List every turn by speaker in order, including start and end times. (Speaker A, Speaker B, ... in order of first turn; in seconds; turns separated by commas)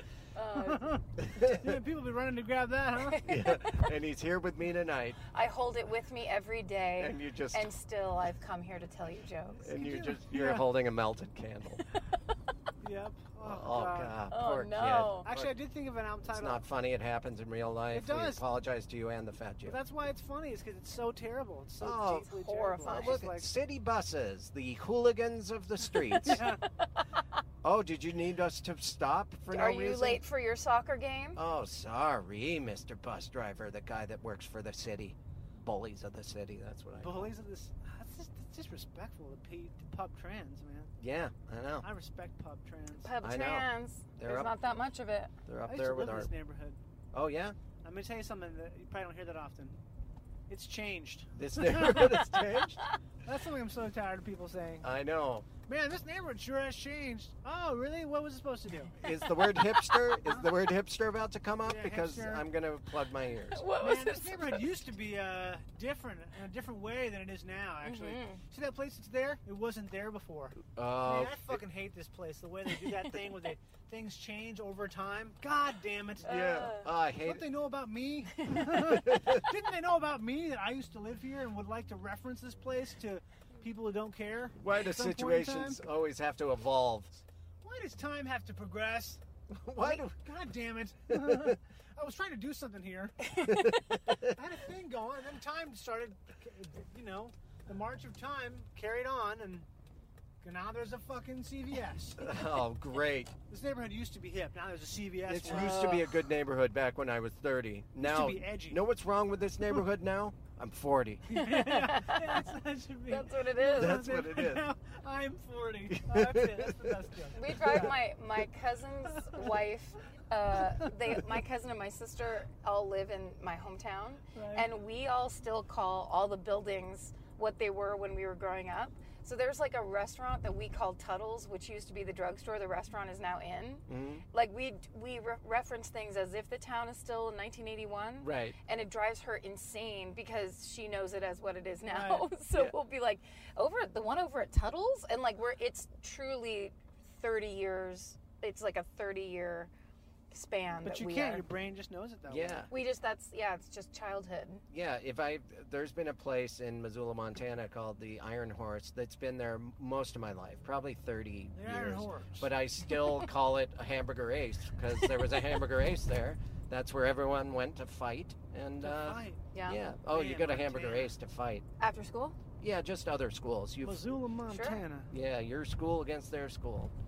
Speaker A: 0.3-1.0, Speaker B: 0.5-3.2, Speaker C: 1.3-1.8, Speaker A: 3.1-3.8, Speaker C: 3.2-5.2, Speaker A: 5.3-9.7, Speaker C: 7.0-7.7, Speaker C: 9.6-11.8, Speaker B: 9.8-10.7, Speaker B: 12.8-14.2, Speaker C: 13.4-15.6, Speaker A: 14.3-15.3, Speaker B: 15.2-16.6, Speaker C: 16.3-19.8, Speaker B: 17.9-18.4, Speaker B: 19.6-23.5, Speaker C: 21.8-22.3, Speaker A: 22.1-23.2, Speaker C: 22.8-26.5, Speaker B: 26.1-26.6, Speaker C: 27.6-30.2, Speaker A: 29.5-31.4, Speaker C: 31.4-37.3, Speaker B: 37.0-40.9, Speaker C: 41.0-41.9, Speaker B: 41.8-43.1, Speaker A: 43.0-45.4, Speaker C: 43.2-44.6, Speaker C: 45.5-46.3, Speaker B: 45.7-46.8, Speaker C: 47.1-47.6, Speaker B: 47.8-49.8, Speaker B: 50.5-52.4, Speaker C: 51.4-52.8, Speaker B: 53.2-54.9, Speaker C: 54.8-55.5, Speaker B: 55.6-59.0, Speaker C: 59.0-63.7, Speaker A: 59.0-60.0, Speaker B: 60.2-60.5, Speaker B: 61.6-62.5, Speaker A: 63.5-64.7, Speaker B: 63.8-85.8, Speaker A: 67.8-68.4, Speaker C: 70.7-71.6, Speaker C: 76.2-77.4, Speaker A: 76.2-76.9, Speaker C: 78.8-79.5, Speaker C: 84.6-87.2, Speaker B: 87.6-89.2, Speaker C: 89.5-90.2, Speaker B: 89.8-93.3, Speaker C: 91.1-91.6, Speaker A: 93.3-93.8, Speaker C: 93.4-94.4, Speaker B: 94.3-99.7, Speaker B: 100.4-102.3, Speaker C: 102.2-103.3, Speaker B: 103.5-106.0, Speaker C: 105.2-111.2, Speaker A: 105.5-106.2, Speaker B: 108.0-108.8, Speaker B: 111.3-118.0, Speaker A: 111.3-112.5, Speaker A: 113.1-114.0, Speaker C: 113.8-114.7, Speaker C: 115.9-116.9, Speaker A: 117.3-149.7, Speaker C: 117.7-117.9, Speaker B: 119.1-119.5, Speaker B: 124.3-124.7, Speaker C: 133.9-134.2, Speaker C: 138.2-138.6, Speaker B: 141.9-142.3, Speaker A: 150.3-151.5, Speaker B: 150.8-152.7, Speaker C: 152.3-152.7, Speaker A: 152.7-154.6, Speaker C: 154.7-171.7, Speaker B: 161.5-162.5, Speaker B: 168.8-169.4, Speaker A: 169.5-169.8, Speaker B: 170.1-171.1, Speaker A: 171.8-172.4, Speaker C: 172.6-174.2, Speaker B: 173.8-175.1, Speaker A: 174.5-174.8, Speaker C: 175.1-176.9